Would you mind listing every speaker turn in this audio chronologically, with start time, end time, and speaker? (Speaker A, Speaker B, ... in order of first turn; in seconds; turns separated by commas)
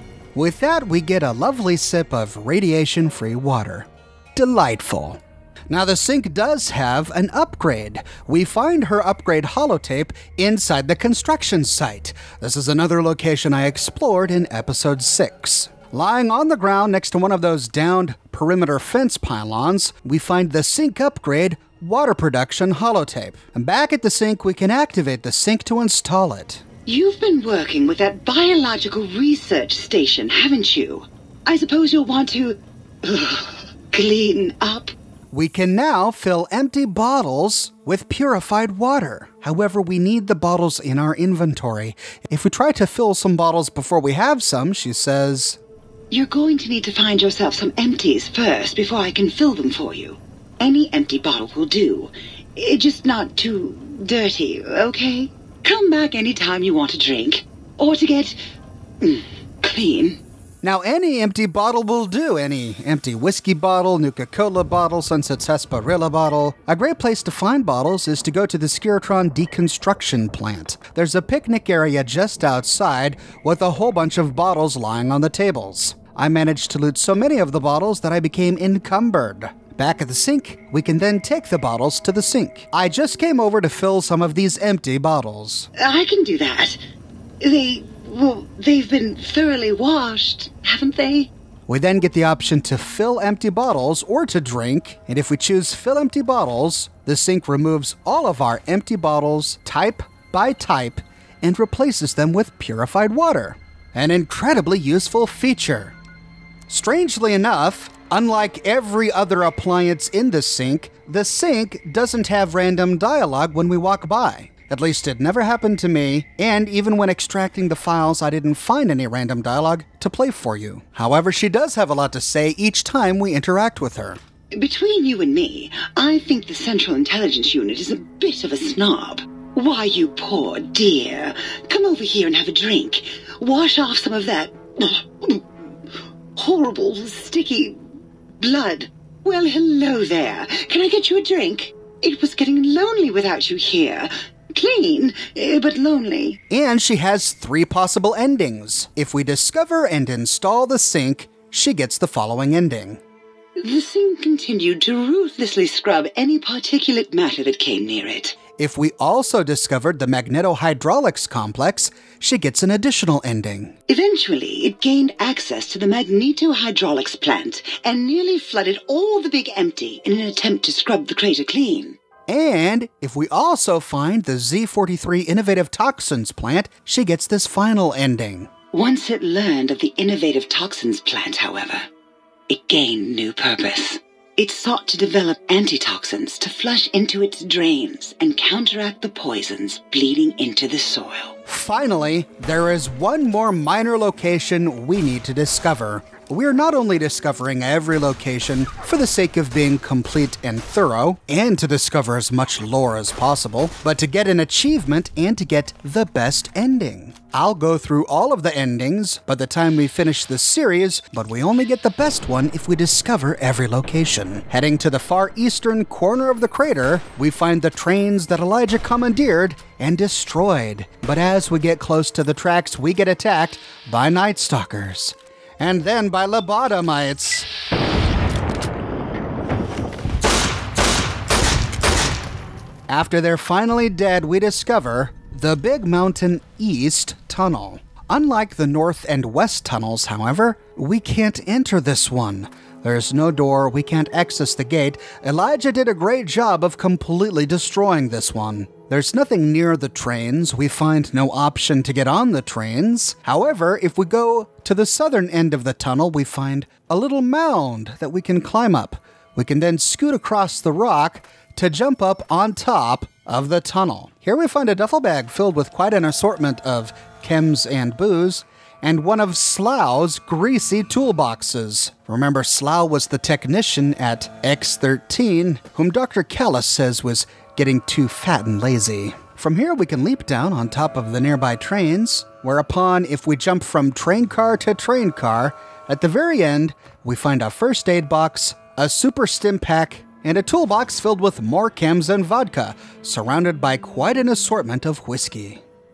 Speaker A: 0.3-26.6, Speaker B: 26.9-34.9, Speaker A: 35.3-45.6, Speaker B: 46.1-58.4, Speaker B: 59.0-60.2, Speaker A: 60.6-85.7, Speaker B: 85.8-86.8, Speaker B: 87.4-91.3, Speaker A: 91.7-106.0, Speaker A: 106.7-124.2, Speaker B: 124.5-135.4, Speaker B: 136.4-137.8, Speaker B: 138.4-146.4, Speaker A: 146.5-153.0, Speaker B: 153.6-158.4, Speaker A: 158.6-163.8, Speaker B: 163.9-172.0, Speaker A: 172.3-178.5, Speaker B: 178.7-181.9, Speaker B: 182.5-191.3, Speaker A: 191.5-227.5, Speaker A: 232.9-295.6